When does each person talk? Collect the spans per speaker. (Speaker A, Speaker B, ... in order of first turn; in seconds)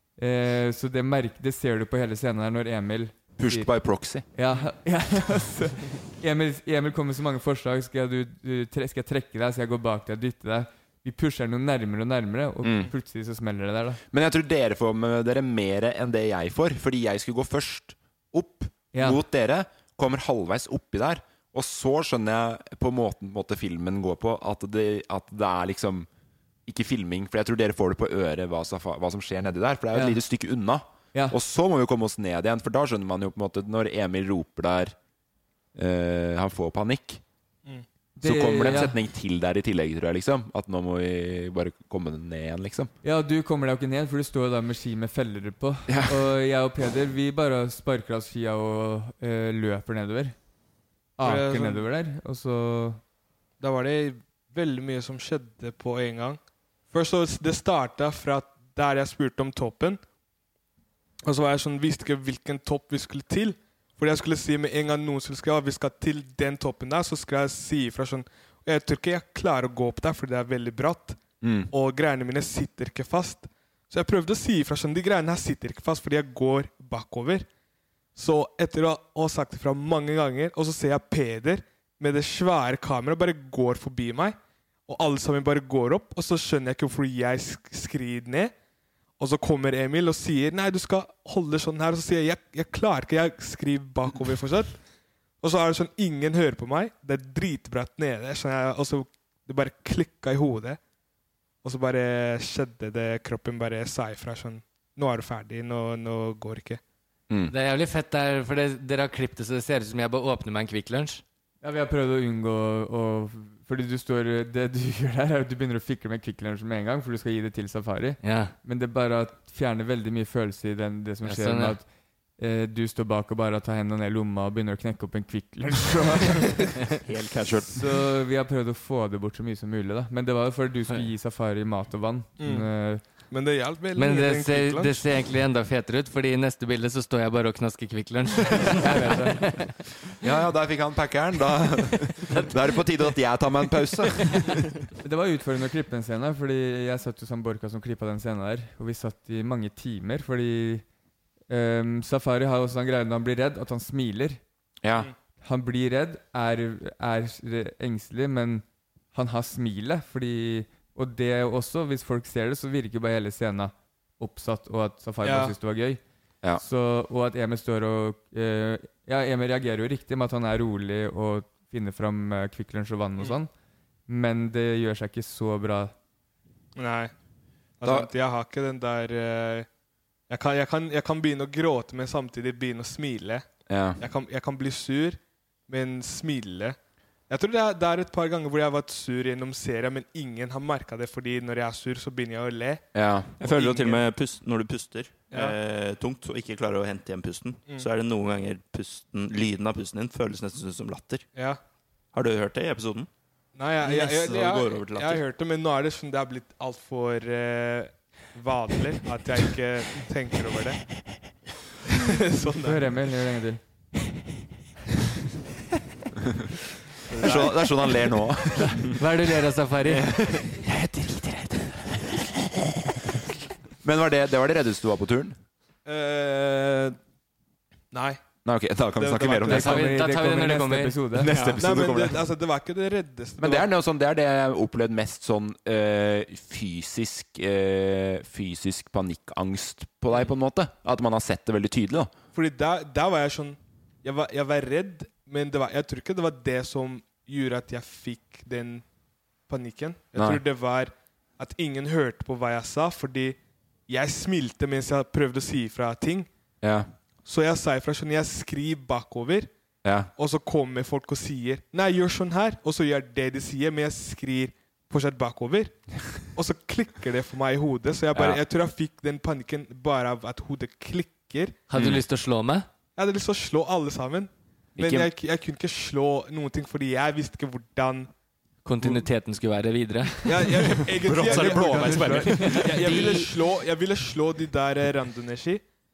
Speaker A: 0.2-3.7, 4.3-14.0, 18.9-19.2, 29.9-30.2, 38.2-39.0, 43.0-50.4, 51.2-53.0, 111.6-121.9, 122.4-126.8, 127.7-133.0, 138.8-139.5, 145.0-150.8, 151.5-154.4, 155.4-166.0, 166.6-173.5, 174.1-175.9, 212.6-213.6, 229.5-231.3, 282.1-282.4
Speaker B: 3.4-4.3, 12.6-12.9, 14.1-26.1, 26.7-35.0, 35.8-37.2, 38.2-42.9, 45.9-46.2, 71.4-71.7, 140.2-144.6, 154.8-155.1, 177.8-178.1, 183.7-184.0, 192.9-193.3, 217.2-218.9, 223.8-225.4, 228.4-229.8, 231.2-232.2, 233.4-242.1, 250.2-250.4, 256.6-256.9, 259.8-260.1, 268.1-268.4, 271.8-272.0, 274.8-275.1
Speaker C: 51.2-51.9, 53.6-60.0, 61.3-71.2, 71.7-77.5, 78.2-88.5, 89.2-94.8, 95.4-100.8, 101.6-106.8, 132.4-132.7, 133.3-135.0, 165.2-165.6, 176.8-177.1, 177.8-179.7, 180.3-183.5, 184.0-186.8, 187.3-192.9, 193.4-194.1, 195.3-195.6, 201.3-201.6, 203.6-210.8, 211.9-213.0, 217.2-217.7, 225.8-227.0, 227.9-228.2, 229.0-229.8, 231.6-233.7, 242.3-248.8, 249.5-256.3, 257.2-259.5, 260.2-265.8, 266.3-271.6, 273.0-278.1, 278.8-279.1, 280.2-285.6
Speaker D: 107.5-111.2, 118.2-118.5, 121.2-121.8, 133.9-139.7, 218.9-220.6, 229.5-231.0, 271.7-272.7, 278.6-280.8, 282.7-283.2
Speaker E: 127.0-127.7, 193.4-201.3, 202.1-203.1, 203.8-205.2, 231.3-231.7, 281.0-283.3